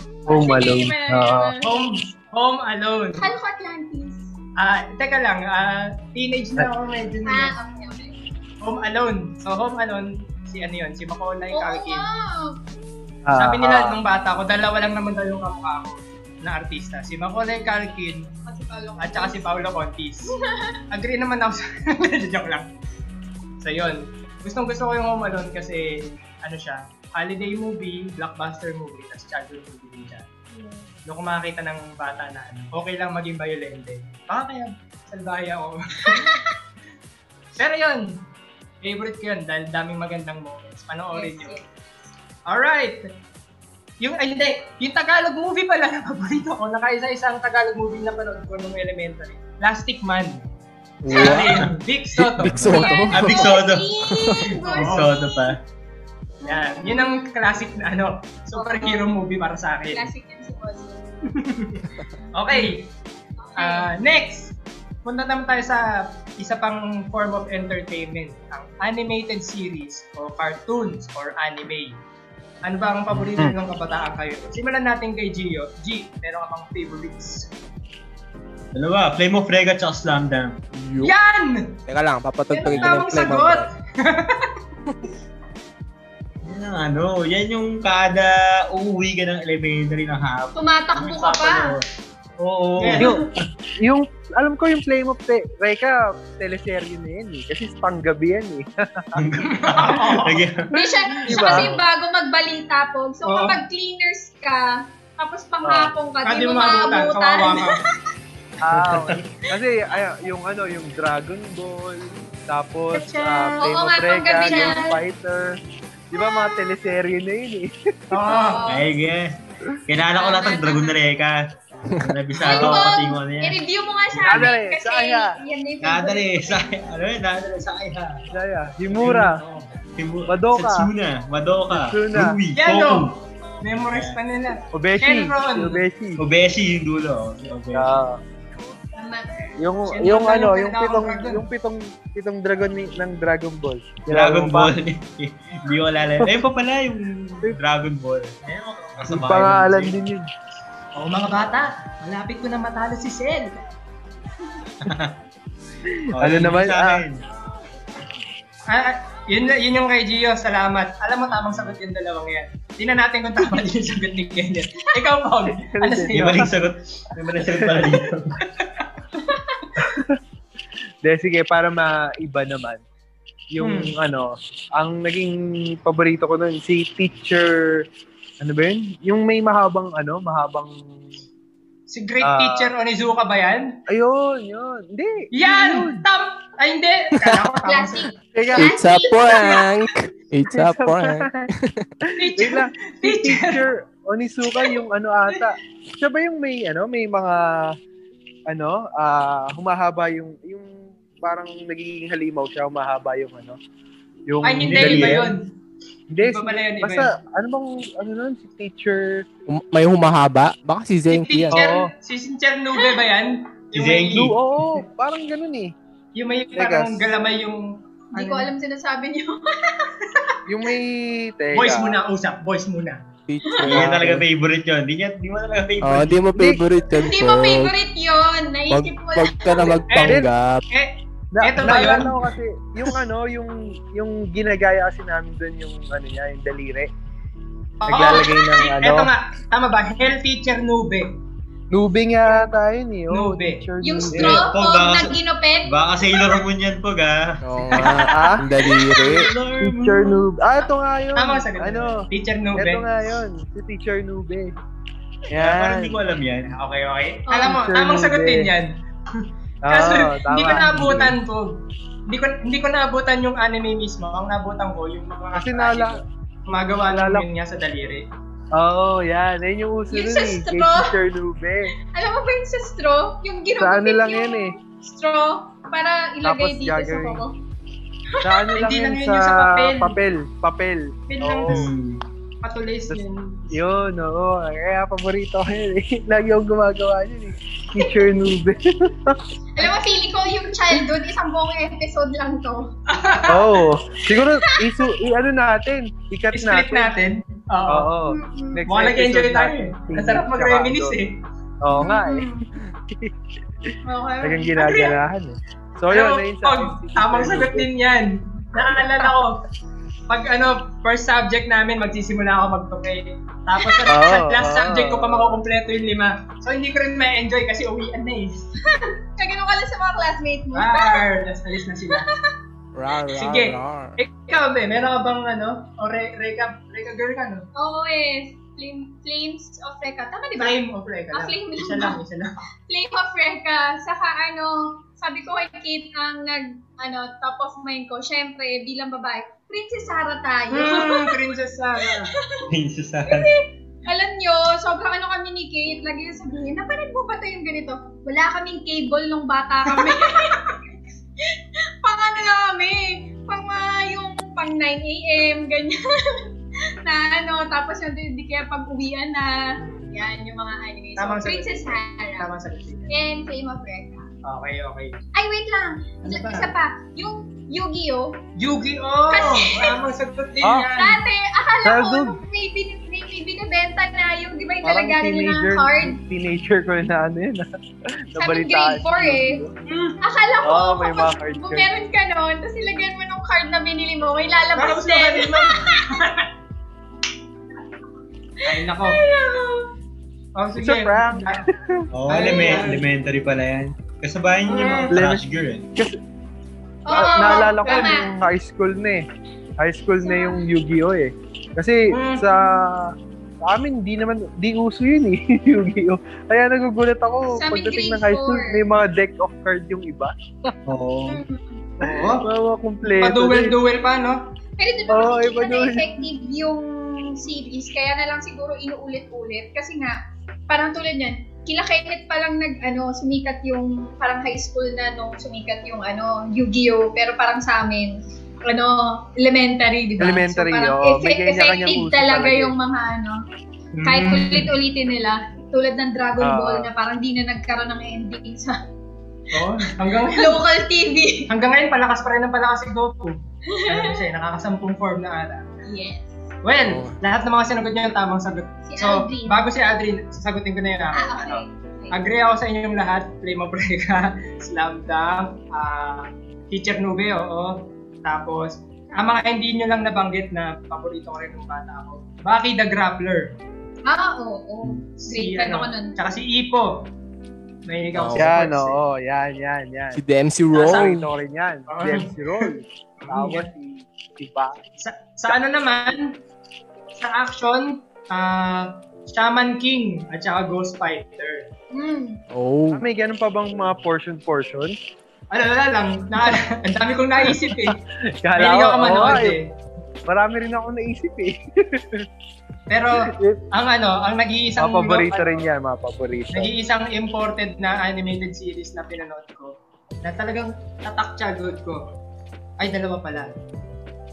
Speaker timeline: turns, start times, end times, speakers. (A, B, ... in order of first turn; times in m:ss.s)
0:00.3-0:01.8 A
0:00.3-0:01.5 B
0:01.6-0:03.3 C
0:03.1-0:04.3 A
0:04.6-0:07.5 C
0:07.3-0:08.2 A
0:08.6-0:12.0 C
0:11.5-0:12.6 A
0:13.3-0:14.0 B
0:13.3-0:18.3 C
0:18.5-0:19.4 A
0:19.0-0:20.3 C
0:20.3-0:20.8 A
0:20.9-0:22.6 C
0:23.6-0:30.3 C
0:30.5-0:30.9 A
0:31.1-0:36.4 C
0:36.1-0:36.5 A
0:37.6-0:38.1 C
0:38.8-0:41.6 C
0:41.1-0:41.9 A
0:42.5-0:43.0 C
0:44.0-0:50.4 C
0:51.0-0:54.6 D
0:51.1-0:52.8 C
0:51.1-0:51.5 A
0:52.6-0:55.5 A
0:53.1-0:53.9 E
0:54.6-0:55.1 C
0:54.8-0:55.6 E
0:56.4-0:57.3 A
0:56.4-1:00.1 C
0:58.6-0:59.1 A
0:59.9-1:01.2 A
1:01.3-1:02.9 C
1:02.2-1:02.7 A
1:03.4-1:03.9 A
1:03.6-1:05.8 C
1:06.4-1:12.0 C
1:12.6-1:17.5 C
1:18.7-1:20.6 E
1:20.7-1:21.1 D
1:21.0-1:21.8 C
1:21.9-1:23.7 D
1:22.5-1:24.5 C
1:22.7-1:23.0 E
1:26.4-1:31.8 E
1:30.6-1:31.8 A
1:32.4-1:33.2 E
1:32.8-1:33.1 C
1:32.9-1:33.3 B
1:33.8-1:39.3 B
1:39.1-1:40.7 E
1:39.5-1:40.5 C
1:40.7-1:47.7 A
1:41.3-1:41.8 B
1:41.3-1:41.7 E
1:43.3-1:43.6 C
1:45.6-1:45.9 B
1:46.3-1:47.8 C
1:48.6-1:55.5 B
1:48.7-1:49.2 E
1:52.9-1:53.6 C
1:53.6-1:55.0 A
1:54.5-1:54.7 C
1:56.1-1:58.2 B
1:56.1-1:56.7 A
1:58.1-1:58.6 C
1:58.3-1:58.9 A
1:58.7-1:59.4 E
1:59.9-2:03.6 E
2:00.1-2:01.0 A
2:02.4-2:06.7 A
2:02.5-2:02.8 B
2:04.1-2:04.5 E
2:04.3-2:05.3 B
2:05.8-2:08.2 E
2:08.3-2:09.4 B
2:08.9-2:13.1 E
2:10.3-2:10.9 B
2:11.7-2:12.4 B
2:12.6-2:15.8 C
2:13.9-2:14.2 E
2:14.7-2:16.2 B
2:16.2-2:18.0 E
2:17.7-2:18.2 B
2:19.0-2:19.5 A
2:19.6-2:24.7 B
2:19.9-2:21.4 C
2:24.1-2:30.0 E
2:29.0-2:30.3 B
2:31.0-2:33.6 C
2:34.8-2:35.2 E
2:35.9-2:37.0 B
2:36.1-2:37.2 E
2:38.7-2:46.5 C
2:45.5-2:46.7 B
2:46.1-2:48.5 E
2:47.4-2:47.9 B
2:49.2-2:49.6 A
2:49.8-2:50.2 B
2:51.0-2:52.8 B
2:53.5-2:57.9 B
2:53.6-2:53.9 C
2:58.4-3:00.8 B
3:01.9-3:03.7 C
3:02.2-3:02.7 B
3:03.9-3:06.0 B
3:05.3-3:08.1 C
3:07.6-3:09.6 A
3:08.4-3:08.8 B
3:08.6-3:11.9 D
3:10.5-3:11.5 B
3:12.2-3:13.6 C
3:12.3-3:17.7 B
3:18.5-3:23.6 B
3:24.3-3:25.3 B
3:24.4-3:25.4 C
3:24.6-3:25.3 E
3:26.1-3:29.3 B
3:26.2-3:27.1 C
3:29.5-3:31.6 D
3:31.1-3:34.3 C
3:31.5-3:31.9 B
3:33.7-3:34.4 E
3:34.1-3:35.7 B
3:36.1-3:38.5 C
3:36.6-3:37.1 B
3:38.1-3:39.9 A
3:40.5-3:42.0 B
3:41.5-3:43.0 C
3:43.3-3:43.7 D
3:43.6-3:44.2 B
3:43.6-3:46.2 E
3:45.8-3:47.7 D
3:46.4-3:46.6 B
3:46.9-3:49.8 A
3:48.7-3:50.6 D
3:49.9-3:52.2 C
3:50.0-3:50.3 B
3:51.3-3:56.9 B
3:57.8-4:01.1 C
3:57.9-3:59.1 B
4:01.7-4:04.4 B
4:03.1-4:03.6 C
4:03.8-4:06.4 A
4:04.1-4:08.1 E
4:07.4-4:09.3 D
4:07.8-4:08.3 C
4:07.9-4:08.5 B
4:08.8-4:10.2 E
4:09.6-4:14.5 B
4:11.2-4:12.8 C
4:15.3-4:16.0 B
4:15.3-4:16.6 E
4:16.5-4:28.0 C
4:17.3-4:17.6 A
4:17.5-4:18.5 B
4:19.6-4:21.2 B
4:25.3-4:26.0 B
4:26.9-4:27.3 B
4:28.6-4:31.7 B
4:29.9-4:30.9 A
4:31.9-4:37.4 A
4:33.6-4:34.6 B
4:36.2-4:37.2 B
4:38.2-4:38.6 A
4:38.2-4:41.7 B
4:38.6-4:40.0 C
4:41.1-4:41.7 C
4:41.5-4:42.0 E
4:42.4-4:43.6 C
4:42.9-4:49.2 B
4:49.6-4:52.7 A
4:52.9-4:53.6 C
4:53.3-4:56.9 B
4:54.4-4:54.8 A
4:56.3-4:57.9 C
4:57.7-5:01.0 B
4:58.1-4:58.6 A
4:58.7-5:01.1 C
5:01.6-5:02.3 B
5:01.8-5:02.3 A
5:03.8-5:04.9 A
5:04.2-5:07.7 B
5:05.9-5:09.4 C
5:10.1-5:18.4 C
5:13.9-5:15.4 B
5:18.6-5:21.0 A
5:20.5-5:22.1 C
5:22.8-5:24.0 D
5:23.1-5:27.4 C
5:27.6-5:30.6 A
5:30.4-5:32.4 C
5:31.1-5:32.0 A
5:32.7-5:41.2 A
5:40.5-5:42.1 C
5:41.8-5:42.5 A
5:42.5-5:43.3 E
5:43.1-5:50.7 A
5:49.7-5:50.0 C
5:51.8-5:56.3 A
5:56.8-6:02.3 A
5:59.6-6:00.0 C
6:01.0-6:03.0 C
6:02.9-6:04.1 A
6:04.2-6:05.0 C
6:05.1-6:08.2 A
6:06.0-6:06.5 C
6:08.4-6:11.0 C
6:09.1-6:09.8 A
6:10.4-6:10.7 B
6:10.7-6:16.0 A
6:11.6-6:12.2 B
6:14.6-6:17.5 B
6:18.1-6:19.6 B
6:18.2-6:19.4 A
6:19.7-6:20.0 C
6:20.0-6:26.0 A
6:20.4-6:21.7 B
6:24.6-6:26.3 C
6:28.4-6:29.0 C
6:28.6-6:29.7 A
6:30.4-6:31.5 C
6:30.6-6:31.9 B
6:31.9-6:35.7 E
6:32.1-6:32.9 C
6:34.5-6:35.0 C
6:34.9-6:35.2 B
6:36.9-6:38.1 A
6:36.9-6:39.0 B
6:37.6-6:38.0 C
6:39.6-6:42.9 B
6:40.0-6:40.4 A
6:41.9-6:42.2 C
6:43.4-6:50.5 B
6:47.3-6:48.6 A
6:50.6-6:51.2 E
6:51.1-6:51.7 A
6:51.8-6:52.2 C
6:52.2-6:53.6 B
6:52.9-6:54.2 C
6:54.6-7:00.0 A
6:54.9-6:55.9 B
7:00.5-7:13.2 A
7:10.0-7:12.6 B
7:13.8-7:14.5 C
7:13.8-7:18.6 A
7:16.2-7:16.7 B
7:19.3-7:20.4 C
7:20.1-7:21.3 A
7:21.3-7:25.5 C
7:23.5-7:24.0 A
7:25.6-7:26.2 A
7:26.4-7:43.3 C
7:26.6-7:27.0 D
7:28.6-7:29.4 A
7:31.0-7:32.0 A
7:43.9-7:46.0 A
7:45.0-7:46.9 C
7:47.6-7:48.8 C
7:48.0-7:48.3 D
7:48.2-7:50.0 B
7:50.0-7:51.0 D
7:50.6-7:51.0 C
7:50.6-7:54.6 B
7:51.7-7:52.5 C
7:53.0-7:53.5 C
7:54.8-7:56.1 C
7:57.0-8:01.5 C
8:01.7-8:02.2 A
8:02.3-8:02.8 D
8:02.7-8:04.8 B
8:05.3-8:07.8 C
8:07.2-8:09.4 B
8:08.4-8:09.5 C
8:10.1-8:12.0 B
8:12.7-8:15.5 C
8:13.1-8:13.4 B
8:14.6-8:16.5 B
8:16.3-8:21.8 C
8:22.6-8:23.4 C